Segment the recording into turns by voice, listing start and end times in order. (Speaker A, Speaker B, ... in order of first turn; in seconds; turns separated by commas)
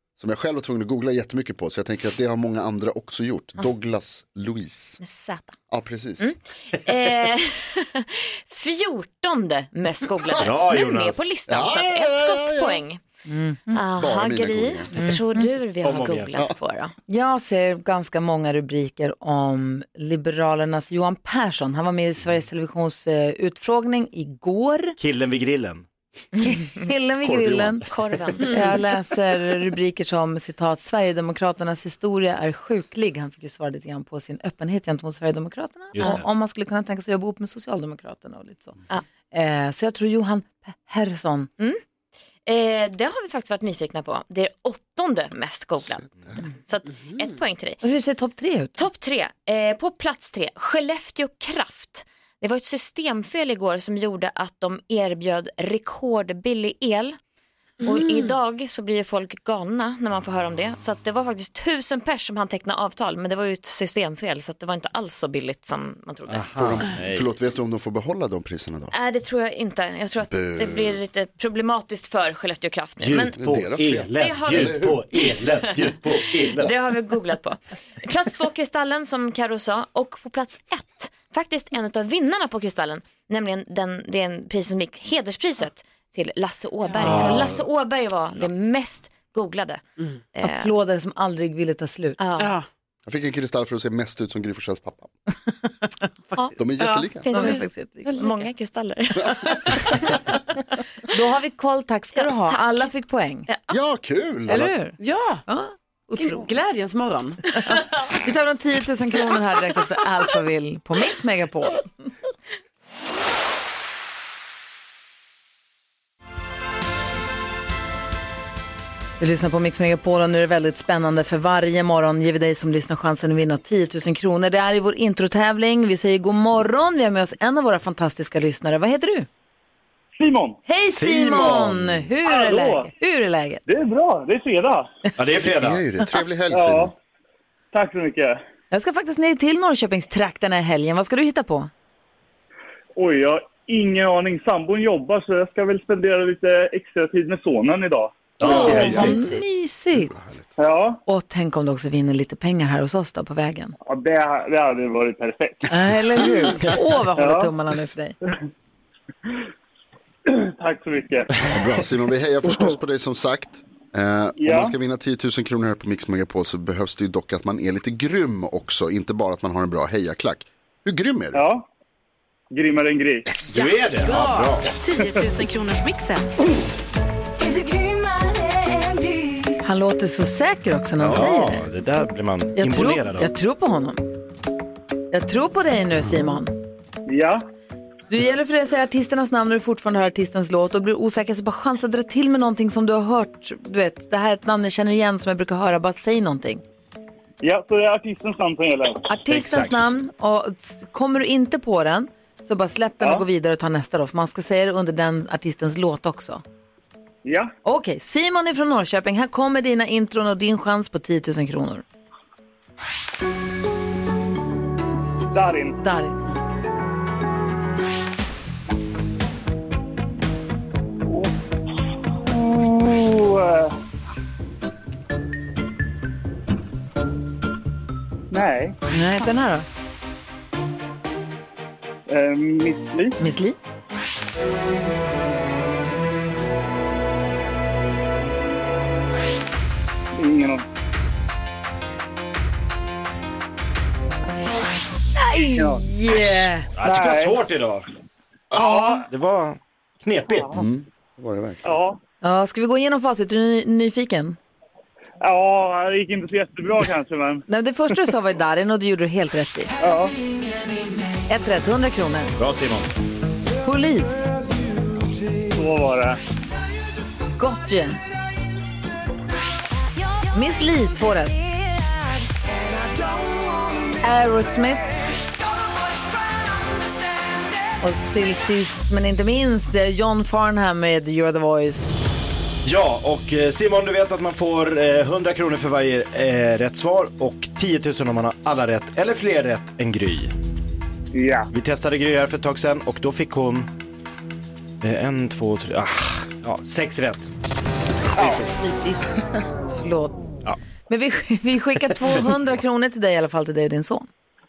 Speaker A: 0.2-5.0, Speaker B: 5.0-5.6, Speaker A: 5.7-6.3, Speaker B: 6.2-13.0, Speaker C: 10.4-11.3, Speaker A: 11.5-12.8, Speaker D: 13.3-13.8, Speaker B: 13.7-16.9, Speaker A: 14.0-15.2, Speaker D: 15.0-15.5, Speaker C: 15.8-16.5, Speaker D: 17.1-25.0, Speaker C: 25.0-25.9, Speaker D: 26.4-27.9, Speaker C: 27.2-27.9, Speaker B: 27.9-28.8, Speaker D: 28.4-38.8, Speaker C: 35.9-36.3, Speaker D: 39.3-41.5, Speaker B: 42.5-47.8, Speaker D: 47.8-48.8, Speaker B: 48.8-57.2, Speaker B: 57.8-66.8, Speaker E: 57.9-58.1, Speaker C: 66.3-67.5, Speaker A: 66.6-69.0, Speaker B: 68.9-73.4, Speaker A: 70.3-71.0, Speaker C: 73.0-76.7, Speaker A: 73.4-75.2, Speaker B: 74.2-89.8, Speaker E: 86.9-87.3, Speaker C: 87.0-87.6, Speaker B: 90.3-90.7, Speaker D: 90.4-92.2, Speaker B: 92.2-92.6, Speaker E: 92.4-92.7, Speaker A: 93.1-95.1, Speaker D: 96.0-96.5, Speaker A: 96.6-97.6, Speaker E: 96.8-98.5, Speaker B: 97.2-100.2, Speaker D: 97.3-98.2, Speaker D: 101.1-103.5, Speaker B: 103.5-103.8, Speaker A: 103.7-104.8, Speaker D: 104.5-106.5, Speaker E: 105.0-105.4, Speaker E: 106.2-107.8, Speaker D: 107.5-111.9, Speaker D: 119.2-129.3, Speaker F: 130.2-130.6, Speaker D: 130.7-133.6, Speaker C: 130.8-131.6, Speaker A: 130.9-132.1, Speaker F: 132.2-132.9, Speaker F: 133.7-134.9, Speaker C: 135.2-135.8, Speaker A: 135.4-136.9, Speaker F: 136.5-136.9, Speaker F: 137.7-138.4, Speaker D: 138.7-141.7, Speaker F: 143.0-149.1, Speaker C: 148.4-149.2, Speaker D: 148.4-150.1, Speaker A: 150.0-150.5, Speaker F: 150.6-151.0, Speaker D: 151.1-153.8, Speaker F: 153.9-155.7, Speaker D: 155.7-158.2, Speaker F: 157.2-157.5, Speaker F: 160.3-161.3, Speaker A: 161.4-171.4, Speaker F: 164.4-164.7, Speaker F: 171.3-171.7, Speaker F: 172.5-173.3, Speaker C: 173.3-174.7, Speaker E: 173.5-174.7, Speaker D: 174.8-176.3, Speaker D: 179.6-181.7, Speaker C: 181.0-183.3, Speaker D: 182.6-184.0, Speaker D: 185.1-186.5, Speaker F: 187.1-187.4, Speaker D: 188.1-196.6, Speaker F: 197.4-199.0, Speaker D: 199.1-206.4, Speaker C: 199.3-200.0, Speaker F: 203.0-203.3, Speaker F: 207.2-207.5, Speaker D: 207.6-211.8, Speaker F: 215.3-215.8, Speaker D: 215.8-216.2, Speaker F: 221.1-221.3, Speaker F: 222.2-223.8, Speaker F: 228.3-228.7, Speaker D: 228.9-229.7, Speaker F: 232.1-233.2, Speaker D: 233.2-233.6, Speaker F: 240.2-240.6, Speaker D: 245.2-246.7, Speaker F: 245.6-245.8, Speaker C: 246.8-247.9, Speaker F: 246.8-247.4, Speaker C: 248.5-250.6, Speaker F: 248.7-248.9, Speaker A: 250.5-251.8, Speaker F: 251.6-252.0, Speaker D: 252.2-254.4, Speaker F: 255.2-257.4, Speaker D: 257.5-259.7, Speaker F: 259.8-260.2, Speaker D: 261.3-262.3, Speaker C: 262.4-262.9, Speaker D: 263.6-264.4, Speaker F: 265.5-266.2, Speaker D: 267.4-268.0, Speaker D: 270.3-271.4, Speaker D: 274.0-274.9, Speaker D: 277.8-282.1, Speaker C: 282.6-290.3, Speaker F: 291.1-291.5, Speaker C: 291.5-293.7, Speaker C: 294.8-297.3, Speaker C: 298.2-298.5, Speaker F: 298.2-298.4, Speaker D: 298.5-299.1, Speaker D: 299.7-300.3, Speaker D: 300.9-304.1